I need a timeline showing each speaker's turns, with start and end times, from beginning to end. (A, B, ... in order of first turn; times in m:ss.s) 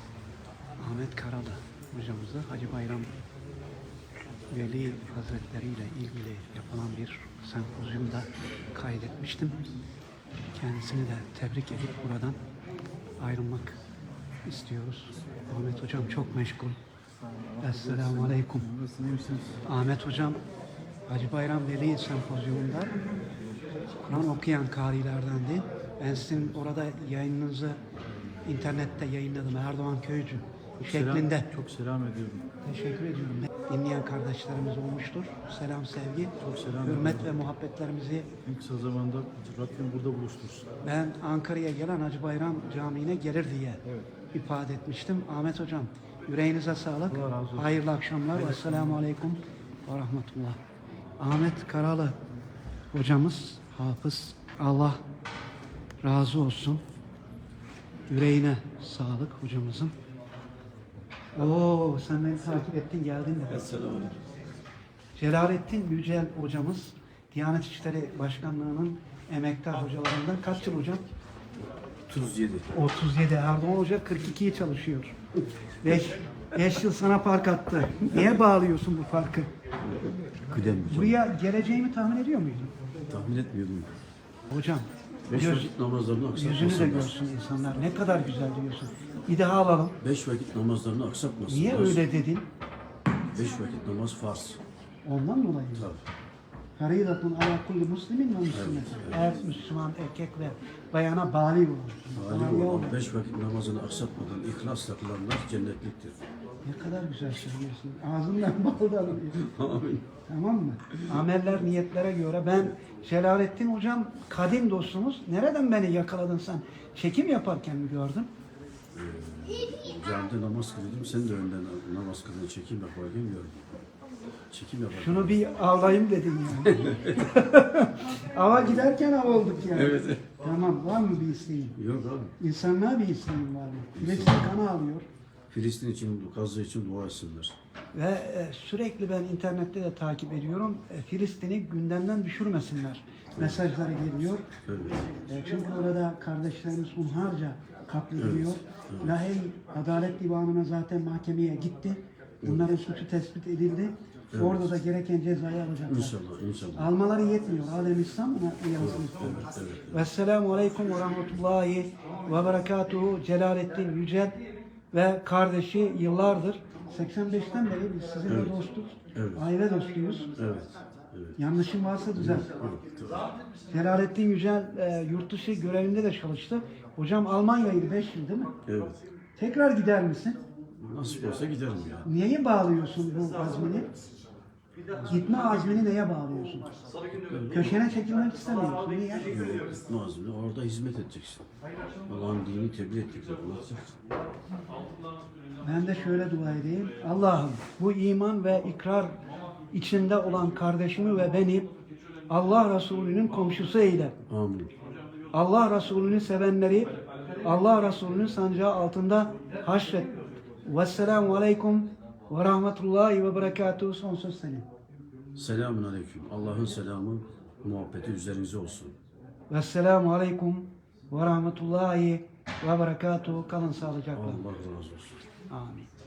0:00.8-0:03.1 A
0:04.5-0:09.6 A
0:10.5-0:12.4 A
0:13.2-0:13.8 A
0:14.4-0:16.8 A
0:17.5-0:19.6 B
0:17.6-0:18.7 A
0:19.6-0:20.4 A
0:21.1-0:23.0 A
0:24.1-0:27.8 A
0:28.4-0:31.5 A
0:30.8-0:32.4 B
0:32.6-0:38.3 A
0:36.4-0:37.5 B
0:38.4-0:40.7 B
0:40.8-0:43.8 A
0:44.3-0:50.6 A
0:47.1-0:47.8 B
0:48.3-0:49.0 B
0:51.2-0:52.2 A
0:52.9-0:55.0 A
0:56.0-0:56.8 A
0:58.1-0:59.9 A
1:01.3-1:03.8 A
1:03.5-1:04.2 C
1:05.2-1:11.0 A
1:12.1-1:12.7 C
1:12.7-1:15.2 A
1:15.8-1:19.5 A
1:19.8-1:21.2 C
1:20.8-1:22.7 A
1:23.1-1:23.9 C
1:24.5-1:25.7 A
1:25.3-1:27.1 C
1:26.3-1:30.0 A
1:30.0-1:32.0 C
1:31.5-1:32.5 A
1:33.3-1:34.6 C
1:35.0-1:35.9 A
1:35.7-1:36.1 C
1:36.8-1:43.0 A
1:38.5-1:39.3 C
1:42.1-1:46.2 C
1:46.6-1:49.4 A
1:49.3-1:50.1 C
1:50.3-1:58.3 A
1:58.9-2:03.8 C
2:04.5-2:05.4 C
2:04.9-2:11.8 A
2:06.8-2:07.2 C
2:09.7-2:10.2 C
2:11.8-2:12.3 C
2:12.4-2:15.1 A
2:13.9-2:14.6 C
2:15.5-2:17.6 C
2:17.9-2:24.5 A
2:23.4-2:23.6 C
2:24.6-2:25.1 C
2:25.2-2:36.1 A
2:28.2-2:29.2 C
2:32.4-2:32.7 C
2:34.3-2:34.7 C
2:35.8-2:36.9 C
2:36.8-2:44.4 A
2:38.8-2:40.0 C
2:44.9-2:50.3 A
2:48.2-2:48.5 C
2:49.1-2:49.4 C
2:50.4-2:51.4 C
2:51.4-2:52.5 A
2:52.2-2:53.3 C
2:53.7-2:58.6 A
2:58.6-2:59.0 C
2:59.4-3:00.4 A
3:00.7-3:02.1 C
3:02.0-3:03.9 A
3:05.0-3:06.7 A
3:07.1-3:07.8 C
3:07.5-3:09.5 A
3:09.3-3:11.5 C
3:12.0-3:14.0 C
3:15.6-3:19.1 A
3:19.7-3:21.7 A
3:22.3-3:24.2 A
3:24.3-3:24.7 C
3:25.3-3:30.1 A
3:30.6-3:34.7 A
3:35.4-3:39.0 C
3:39.5-3:44.4 A
3:44.1-3:45.2 C
3:45.5-3:45.9 A